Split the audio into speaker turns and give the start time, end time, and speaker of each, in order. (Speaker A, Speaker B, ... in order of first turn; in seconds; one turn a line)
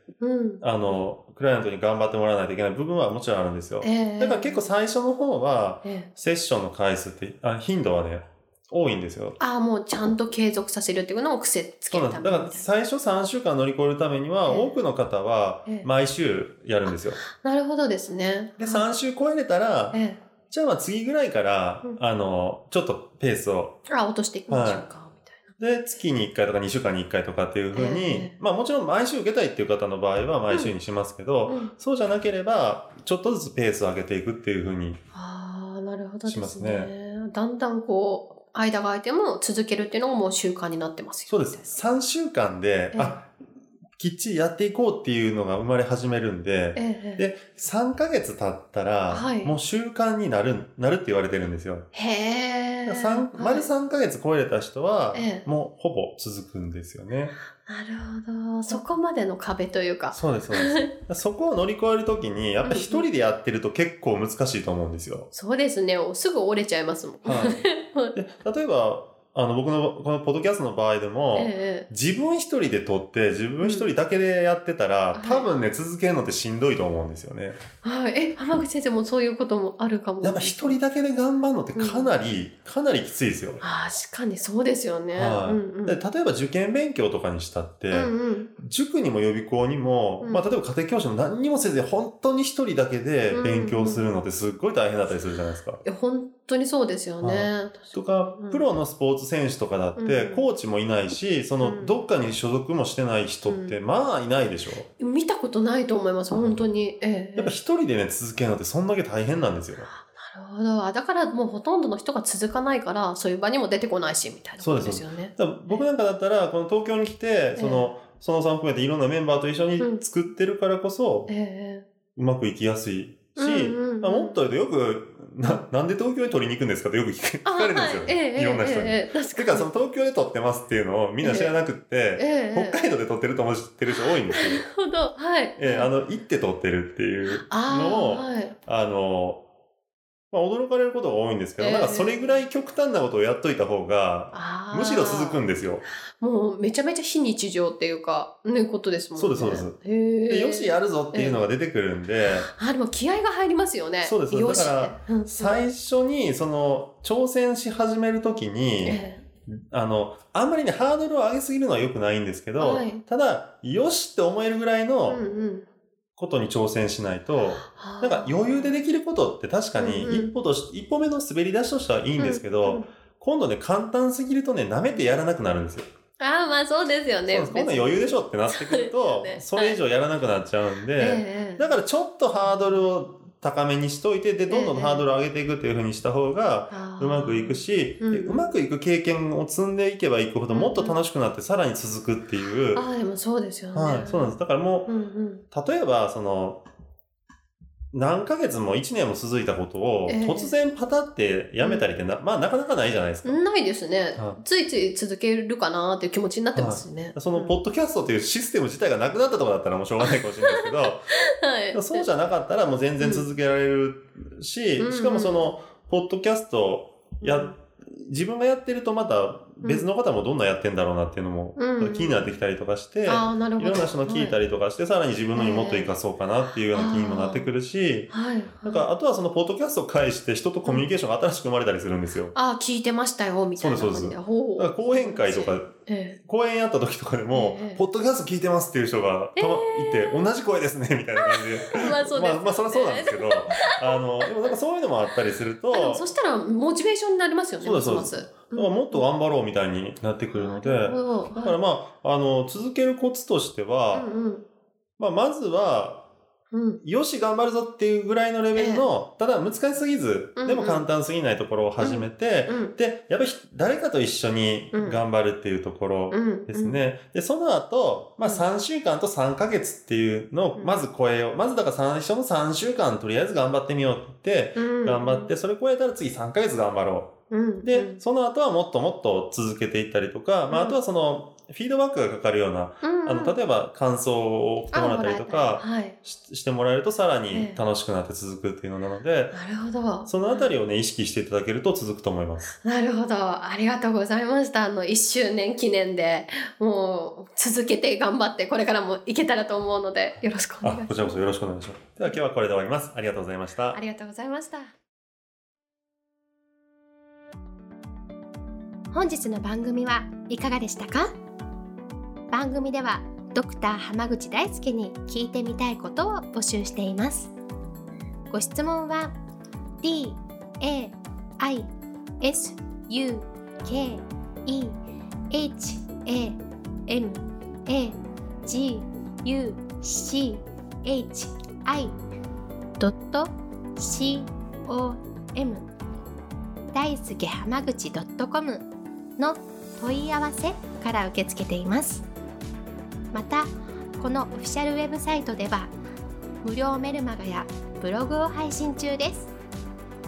Speaker A: 0.2-0.6
Speaker B: 0.6-9.4
Speaker A: 3.8-4.7
Speaker A: 5.8-6.1
Speaker A: 9.4-12.7
Speaker B: 11.9-17.2
Speaker A: 14.4-14.8
Speaker A: 17.2-18.9
Speaker B: 18.6-23.8
Speaker A: 19.9-20.2
Speaker A: 23.9-25.4
Speaker B: 24.5-24.9
Speaker B: 25.6-35.0
Speaker A: 27.7-28.4
Speaker A: 31.4-31.7
Speaker A: 35.1-41.7
Speaker B: 36.2-36.9
Speaker B: 41.3-43.3
Speaker A: 42.9-43.2
Speaker B: 44.0-51.9
Speaker A: 46.7-47.2
Speaker A: 49.1-49.6
Speaker A: 51.9-53.7
Speaker B: 52.8-57.4
Speaker A: 55.1-55.5
Speaker A: 57.6-60.9
Speaker B: 60.1-65.3
Speaker A: 62.6-63.1
Speaker A: 65.3-68.2
Speaker B: 67.2-67.6
Speaker B: 68.1-77.6
Speaker A: 71.3-71.9
Speaker A: 73.6-73.9
Speaker A: 75.1-75.5
Speaker A: 77.8-80.8
Speaker B: 80.2-83.6
Speaker A: 81.8-82.1
Speaker A: 83.6-86.0
Speaker B: 85.1-95.8
Speaker A: 87.9-88.5
Speaker A: 93.3-94.1
Speaker A: 95.8-98.7
Speaker B: 97.2-104.9
Speaker A: 100.0-100.5
Speaker A: 101.6-102.0
Speaker A: 103.5-103.8
Speaker A: 105.0-107.5
Speaker B: 106.3-106.7
Speaker B: 107.4-109.9
Speaker A: 109.8-115.9
Speaker B: 114.6-121.3
Speaker A: 117.5-117.9
Speaker A: 119.8-120.0
Speaker A: 121.3-121.8
Speaker B: 122.1-134.7
Speaker A: 123.3-124.4
Speaker A: 127.4-129.7
Speaker A: 131.2-131.6
Speaker A: 132.2-132.9
Speaker A: 134.0-135.9
Speaker B: 135.6-139.5
Speaker A: 137.2-138.6
Speaker B: 140.3-145.9
Speaker A: 141.6-142.4
Speaker A: 144.3-145.5
Speaker A: 146.2-151.5
Speaker B: 149.2-149.8
Speaker B: 150.3-152.5
Speaker A: 152.3-155.6
Speaker B: 154.0-165.2
Speaker A: 158.8-159.2
Speaker A: 162.6-163.0
Speaker A: 165.1-165.6
Speaker B: 166.2-175.9
Speaker A: 167.6-168.8
Speaker A: 169.8-170.3
Speaker A: 172.2-172.9
Speaker A: 176.2-179.8
Speaker B: 177.3-192.8
Speaker A: 181.0-181.8
Speaker A: 184.5-185.1
Speaker A: 186.7-188.5
Speaker A: 190.5-191.0
Speaker A: 192.7-195.4
Speaker B: 193.7-194.9
Speaker B: 195.5-196.6
Speaker B: 197.9-203.4
Speaker A: 200.1-200.6
Speaker A: 201.6-201.8
Speaker A: 203.2-207.6
Speaker B: 204.2-204.4
Speaker B: 206.5-211.1
Speaker A: 210.1-212.1
Speaker B: 211.7-232.3
Speaker A: 213.0-213.3
Speaker A: 214.8-215.5
Speaker A: 217.2-217.5
Speaker A: 219.6-219.9
Speaker A: 221.6-222.2
Speaker A: 223.1-224.4
Speaker A: 225.3-226.0
Speaker A: 226.7-227.5
Speaker A: 228.1-228.9
Speaker A: 232.3-236.2
Speaker B: 233.6-246.1
Speaker A: 237.3-237.8
Speaker A: 239.3-240.3
Speaker A: 241.2-244.5
Speaker A: 245.7-249.0
Speaker B: 247.6-254.1
Speaker A: 250.3-251.6
Speaker A: 253.9-254.4
Speaker B: 255.0-256.1
Speaker A: 256.5-256.8
Speaker B: 256.8-289.4
Speaker A: 258.6-258.9
Speaker A: 260.4-260.9
Speaker A: 261.8-262.8
Speaker A: 264.7-265.0
Speaker A: 266.1-266.8
Speaker A: 270.6-270.8
Speaker A: 274.6-275.3
Speaker A: 277.3-278.0
Speaker A: 280.5-280.8
Speaker A: 282.8-283.4
Speaker A: 284.7-286.0
Speaker A: 287.3-287.6
Speaker A: 289.3-290.5
Speaker B: 290.1-292.5
Speaker A: 292.6-301.1
Speaker B: 300.6-303.8
Speaker C: 303.7-304.7
Speaker C: 308.9-311.1
Speaker C: 312.3-317.3
Speaker C: 318.3-319.1
Speaker C: 319.8-324.7
Speaker C: 325.3-331.9
Speaker C: 332.8-335.7
Speaker C: 336.7-342.1
Speaker C: 343.1-345.7
Speaker C: 346.4-349.3